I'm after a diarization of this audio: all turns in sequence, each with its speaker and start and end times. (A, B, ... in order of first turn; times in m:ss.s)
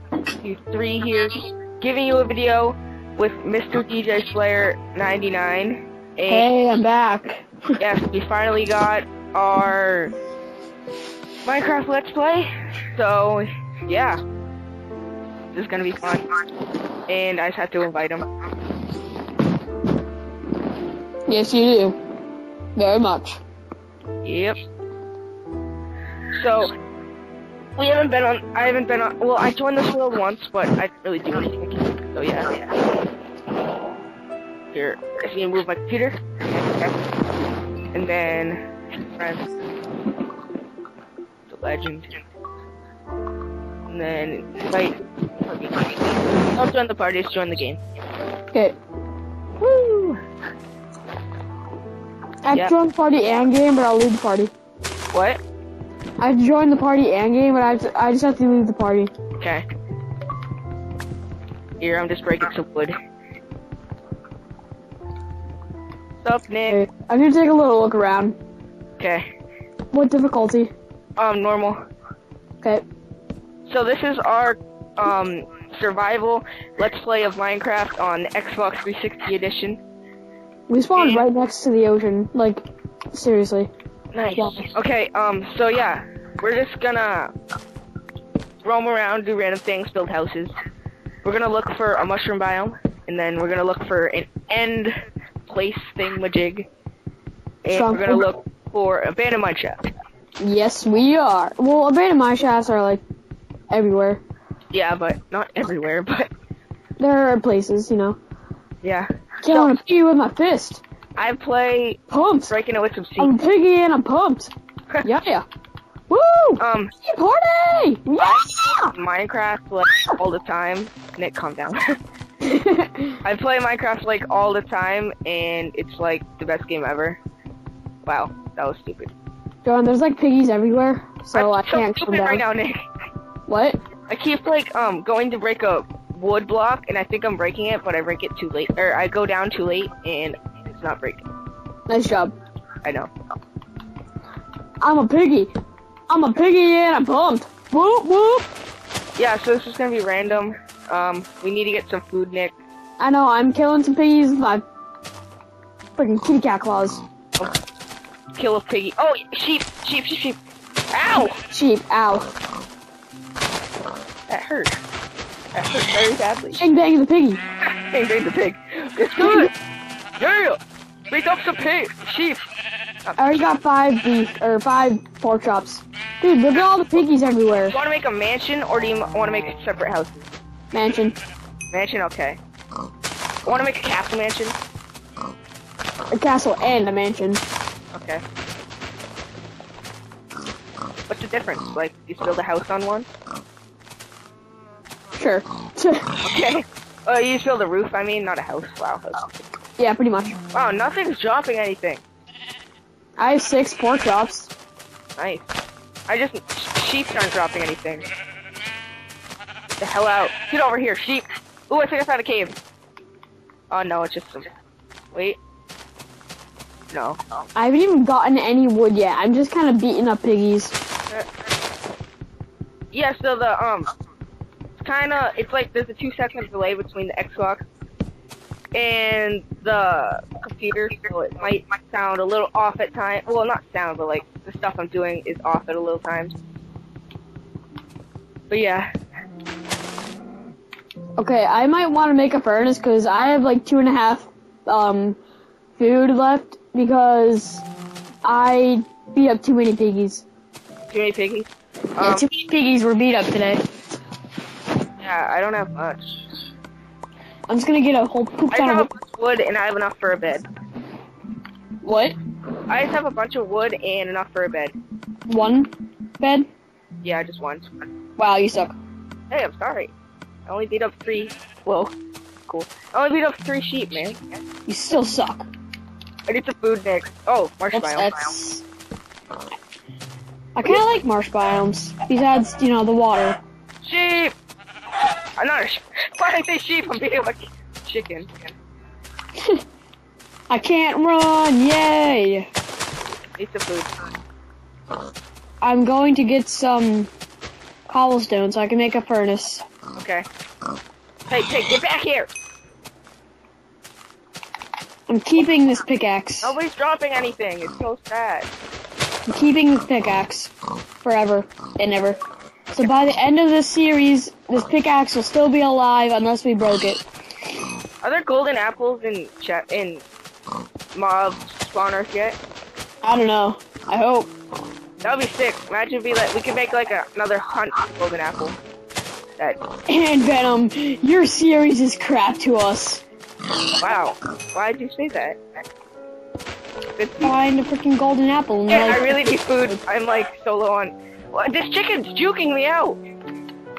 0:00.4-0:06.5 A
0:06.3-0:07.8 B
0:07.8-0:10.1 A
0:11.5-0:12.4 A
0:13.0-0:14.2 A
0:15.6-0:16.2 A
0:17.1-0:18.2 A
0:21.3-0:22.0 B
0:22.8-0:23.4 B
0:24.3-0:24.5 A
0:26.4-0:26.7 A
0:27.8-0:32.6 A
0:34.7-0:36.9 A
0:37.9-0:38.6 A
0:41.5-0:42.0 A
0:43.9-0:44.9 A
0:46.6-0:47.8 A
0:48.5-0:48.8 B
0:52.4-0:54.5 B
0:56.2-0:59.1 B
1:01.8-1:02.9 A
1:06.3-1:06.8 A
1:06.7-1:08.4 B
1:09.9-1:10.7 B
1:11.2-1:11.8 A
1:13.7-1:14.5 A
1:15.2-1:19.8 A
1:20.7-1:23.7 B
1:21.0-1:21.2 A
1:24.1-1:27.3 A
1:24.3-1:24.7 B
1:28.6-1:30.5 A
1:31.2-1:34.9 A
1:35.5-1:36.6 A
1:37.6-1:39.7 A
1:37.7-1:38.3 B
1:40.4-1:43.0 B
1:43.7-1:44.2 B
1:44.7-1:46.2 A
1:47.0-1:48.2 B
1:48.8-1:49.5 A
1:49.4-1:50.8 B
1:51.2-1:52.0 A
1:52.1-1:52.6 B
1:52.6-1:53.3 A
1:53.2-1:55.4 B
1:56.1-1:58.9 B
1:59.0-2:01.7 A
2:02.4-2:03.2 B
2:03.2-2:07.2 A
2:08.1-2:09.1 A
2:09.6-2:12.5 B
2:11.3-2:12.7 A
2:13.5-2:13.8 B
2:14.1-2:21.2 A
2:21.9-2:22.3 B
2:24.8-2:25.5 B
2:26.1-2:28.5 B
2:29.2-2:32.5 A
2:33.0-2:34.6 B
2:36.0-2:37.0 B
2:38.4-2:40.3 A
2:40.9-2:41.2 A
2:41.5-2:42.3 B
2:44.3-2:44.7 A
2:45.6-2:46.6 A
2:46.5-2:47.4 B
2:47.9-2:49.4 A
2:49.1-2:49.5 B
2:50.2-2:50.5 A
2:51.1-2:52.2 A
2:53.2-2:57.8 B
2:57.7-3:00.2 A
3:00.7-3:01.2 B
3:01.7-3:02.4 A
3:03.5-3:04.5 A
3:06.1-3:07.4 B
3:11.1-3:13.0 A
3:15.2-3:16.0 B
3:16.2-3:19.3 A
3:19.8-3:20.4 B
3:20.6-3:22.0 A
3:23.2-3:24.5 B
3:26.1-3:28.0 A
3:29.8-3:32.5 A
3:33.7-3:34.4 A
3:37.6-3:40.7 B
3:42.9-3:43.8 A
3:44.8-3:47.6 A
3:48.7-3:56.3 A
3:58.5-3:58.8 A
4:01.2-4:05.2 B
4:05.8-4:07.6 B
4:08.2-4:10.2 B
4:11.0-4:11.4 A
4:12.0-4:13.6 B
4:15.0-4:15.9 A
4:17.5-4:18.9 B
4:18.5-4:20.4 A
4:21.8-4:22.2 B
4:22.7-4:24.7 A
4:25.3-4:26.5 B
4:27.0-4:27.6 A
4:28.2-4:28.8 B
4:29.3-4:29.9 A
4:30.5-4:31.9 A
4:32.6-4:34.2 A
4:34.6-4:35.5 B
4:36.3-4:38.1 A
4:37.7-4:38.6 B
4:40.5-4:43.4 B
4:43.9-4:44.3 A
4:45.4-4:48.2 A
4:50.5-4:52.5 B
4:53.4-4:53.8 A
4:55.6-4:57.1 B
4:57.9-4:59.6 B
5:01.3-5:02.2 A
5:05.1-5:06.6 B
5:06.4-5:08.4 A
5:09.3-5:10.5 B
5:11.0-5:17.0 B
5:18.0-5:20.0 A
5:20.9-5:22.3 A
5:23.0-5:24.3 B
5:25.0-5:28.6 A
5:29.9-5:33.0 B
5:33.8-5:35.4 A
5:37.0-5:37.3 A
5:37.2-5:39.7 B
5:38.7-5:42.9 A